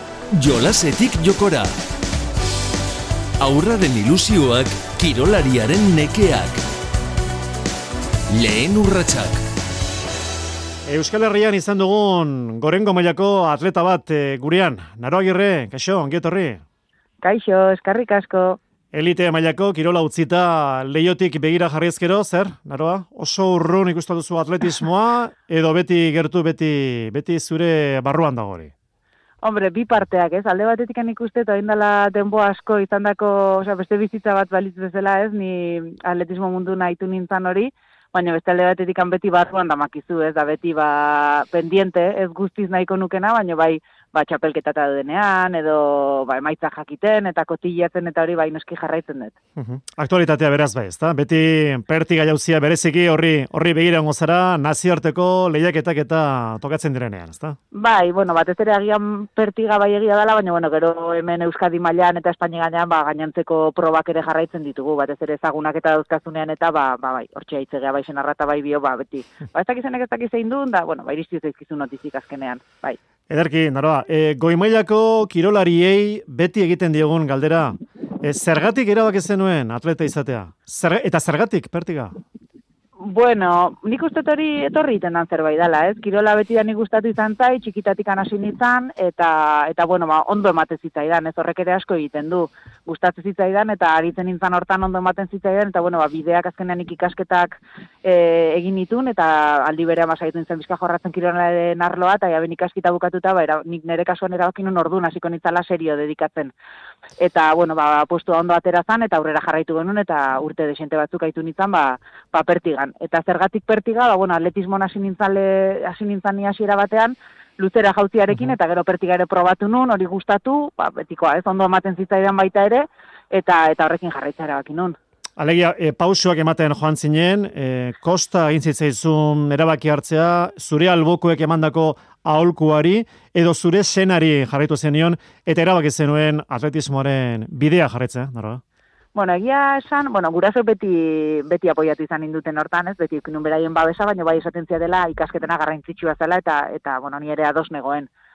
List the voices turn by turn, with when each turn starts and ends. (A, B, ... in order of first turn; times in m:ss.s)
0:00.3-0:01.7 A
0:03.4-0:06.6 A
0:08.3-0:09.4 A
0:10.8-0:16.6 B
0:17.2-0:18.6 C
0:18.9-0:28.7 B
0:29.4-0:49.3 C
0:49.6-0:57.6 B
0:57.7-1:13.0 C
1:13.3-1:22.1 B
1:23.0-1:46.5 C
1:47.2-2:05.0 C
2:05.4-2:18.6 B
2:19.1-2:28.1 C